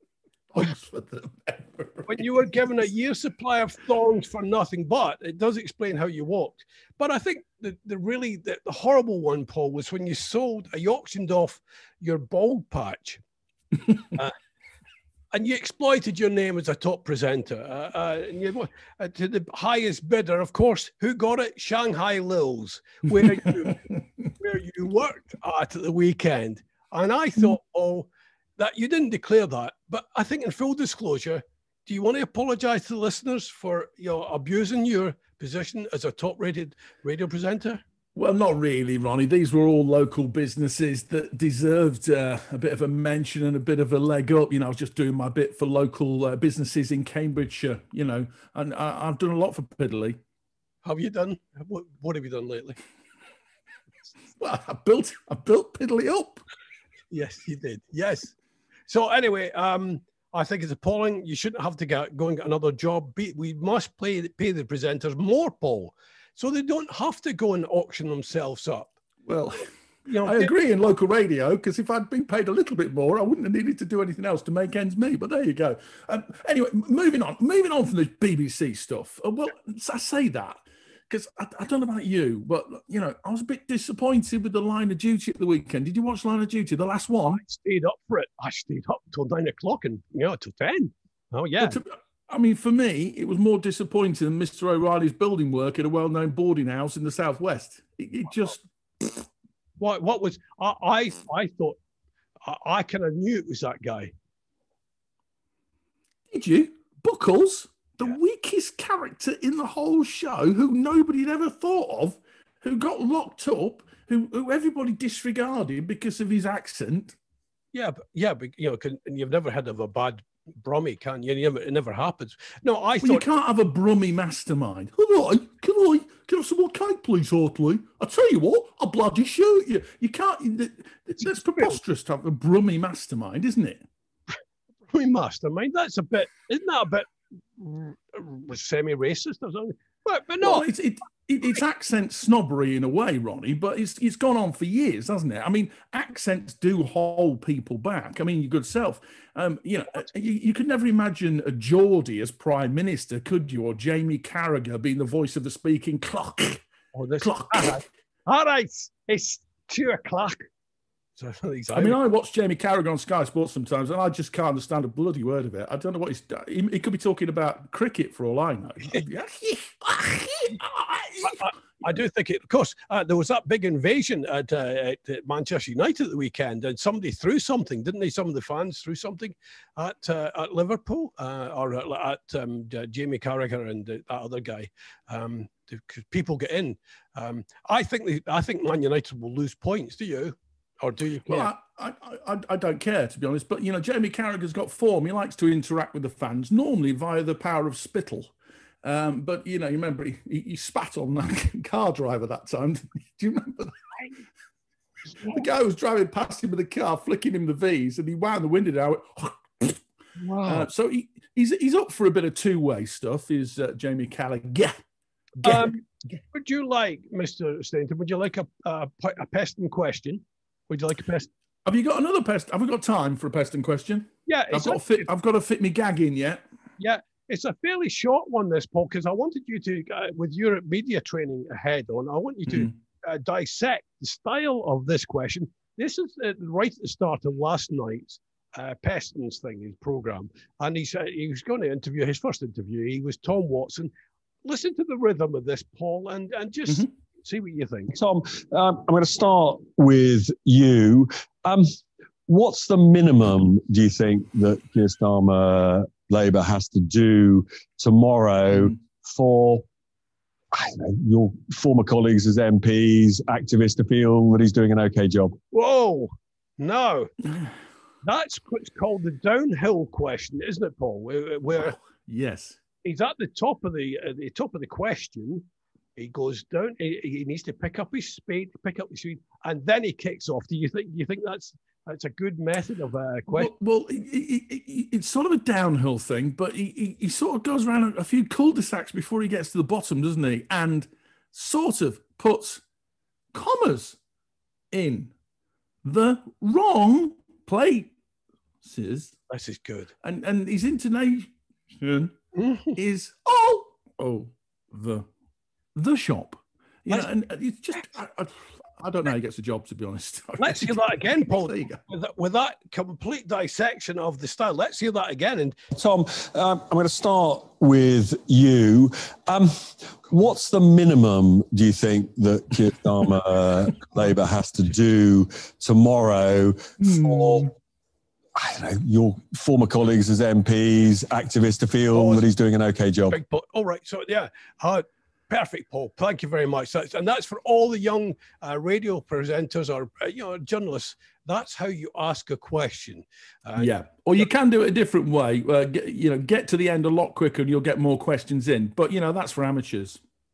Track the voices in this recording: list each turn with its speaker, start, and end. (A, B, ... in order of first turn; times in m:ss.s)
0:00.5-0:02.4 A
0:02.1-0:13.2 B
0:14.1-0:14.4 B
0:15.3-0:37.8 B
0:23.2-0:23.7 A
0:38.2-0:50.2 A
0:50.8-0:52.8 B
0:54.4-0:56.4 A
0:57.1-0:58.4 B
0:58.9-1:08.9 B
1:09.2-1:27.4 A
1:10.1-1:10.5 B
1:27.3-1:31.8 B
1:31.6-1:39.2 A
1:39.8-1:41.8 B
1:42.4-1:44.1 B
1:46.3-1:57.2 A
1:57.7-2:03.3 B
2:03.0-2:13.8 A
2:14.9-2:20.7 B
2:20.4-2:36.6 A
2:36.9-2:40.4 B
2:37.2-2:37.8 A
2:41.2-2:42.0 B
2:41.7-2:51.4 A
2:51.2-3:11.5 B
3:11.3-3:23.9 A
3:25.3-3:29.8 A
3:30.2-3:30.7 B
3:30.4-3:34.8 A
3:35.4-3:35.7 A
3:35.4-3:41.3 B
3:41.6-3:46.4 A
3:44.3-3:45.1 B
3:46.8-4:03.9 B
4:04.4-4:08.0 B
4:08.0-4:11.7 C
4:12.3-4:19.6 C
4:20.5-4:25.4 C
4:25.5-4:27.1 B
4:28.0-4:31.8 B
4:31.5-4:32.6 A
4:32.8-4:43.5 B
4:43.3-4:52.6 A
4:53.3-4:54.0 A
4:54.7-4:55.1 A
4:55.8-4:57.9 A
4:58.6-4:59.2 A
4:59.3-4:59.9 B
5:00.0-5:02.2 A
5:02.3-5:02.8 B
5:02.8-5:05.0 A
5:05.8-5:11.8 A
5:10.4-5:15.6 B
5:15.8-5:27.5 C
5:26.8-5:27.5 A
5:28.3-5:33.2 C
5:31.9-5:32.3 B
5:33.1-5:43.7 B
5:43.6-5:50.0 A